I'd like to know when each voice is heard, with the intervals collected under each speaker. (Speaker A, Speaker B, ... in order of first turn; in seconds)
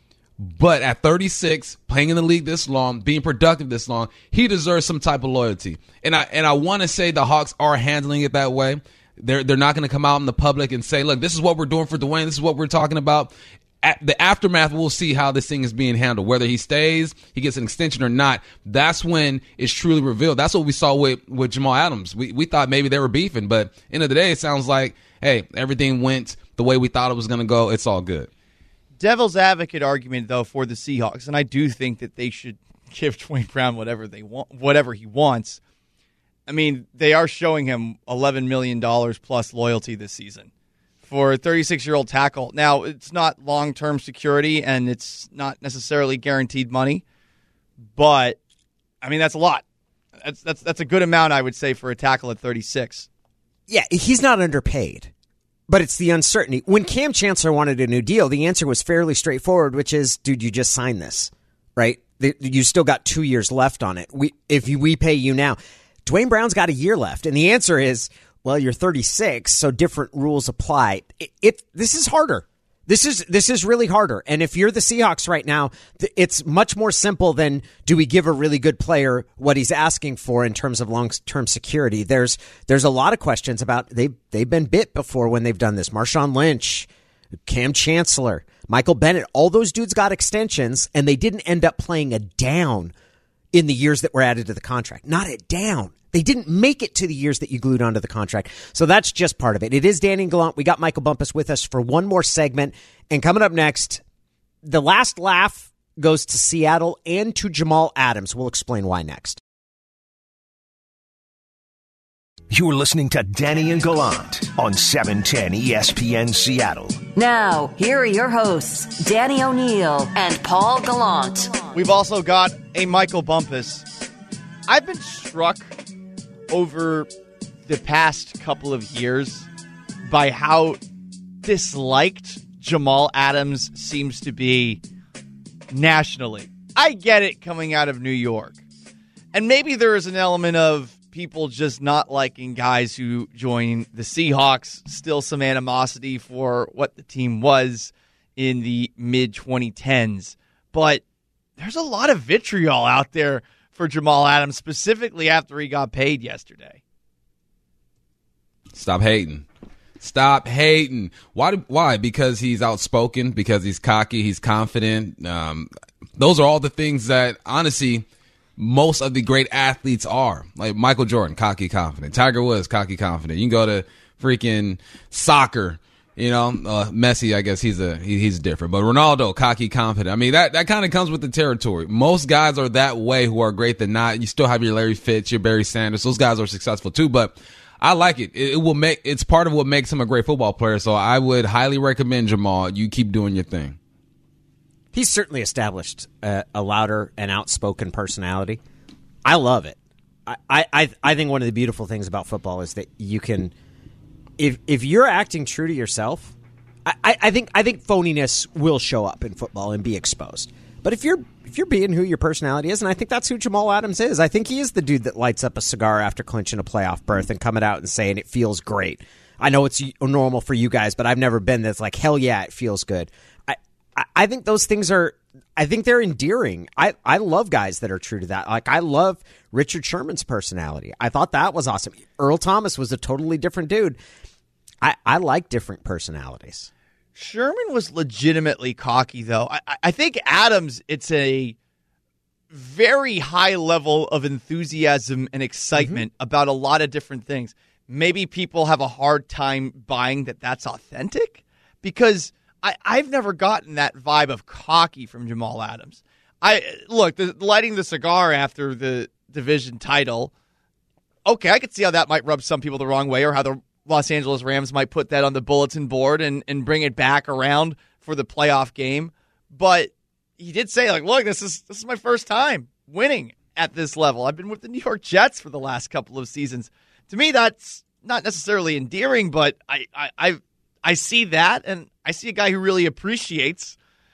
Speaker A: 0.4-28.3, 158.7-159.4, 160.0-168.0, 168.6-193.8
Speaker B: 29.0-35.6, 36.5-40.5, 41.0-47.0, 47.9-48.4, 49.0-49.6, 50.2-53.1, 121.7-123.9, 124.7-125.7, 126.5-127.1, 127.7-129.5, 130.1-130.8, 131.4-134.8, 135.7-138.6, 139.3-151.0, 151.6-156.8, 237.2-241.5, 242.5-260.3, 261.2-283.8
Speaker C: 53.7-55.1, 55.7-86.9, 87.5-92.9, 93.5-104.0, 104.7-109.4, 194.9-198.6, 199.2-203.5, 204.4-234.0, 234.8-236.7, 245.8-246.0
Speaker D: 112.5-117.0
Speaker E: 117.1-121.7